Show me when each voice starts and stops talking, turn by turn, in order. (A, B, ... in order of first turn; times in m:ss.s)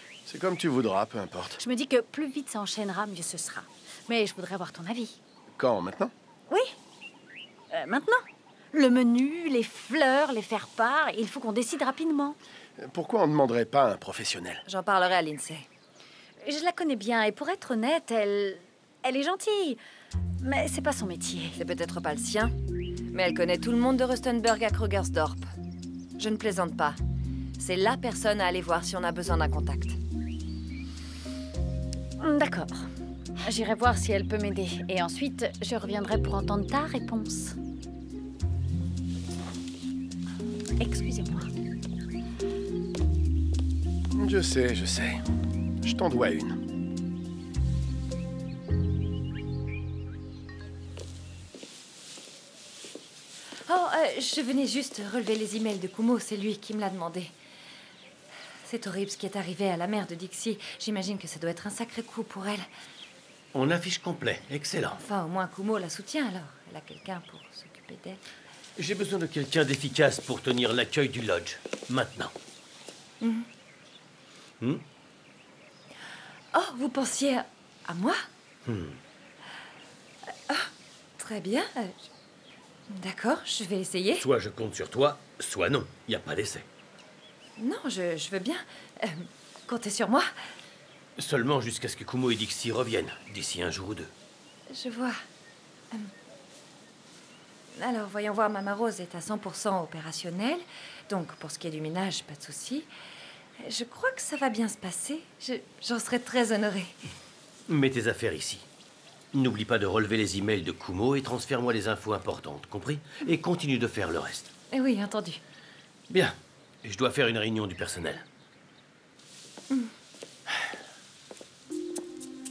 0:00.2-0:01.6 A
0:01.6-0:05.2 B
0:05.6-0:06.1 A
0:06.5-0:06.7 B
0:07.7-0:12.4 B
0:12.8-0:14.6 A
0:14.7-0:15.7 C
0:16.4-0:19.8 B
0:20.4-0:21.6 B
0:21.6-0:22.5 C
0:23.1-0:25.5 C
0:26.2-0:27.0 C
0:27.6-0:30.0 C
0:32.2-0:32.9 B
0:33.4-0:37.6 B
0:40.8-0:41.5 B
0:44.1-0:45.2 A
0:45.8-0:46.6 A
0:53.7-0:57.3 C
0:58.6-1:02.7 C
1:03.5-1:05.0 D
1:04.9-1:08.2 C
1:08.8-1:12.3 D
1:13.2-1:13.5 C
1:16.5-1:18.2 C
1:18.6-1:19.0 D
1:20.5-1:22.1 C
1:22.9-1:24.2 C
1:24.2-1:26.7 D
1:27.6-1:30.3 C
1:31.2-1:34.1 D
1:34.7-1:35.2 C
1:37.7-1:42.9 C
1:43.6-1:47.0 C
1:47.7-1:48.6 D
1:49.3-1:54.5 D
1:54.7-1:55.4 C
1:56.1-1:58.2 D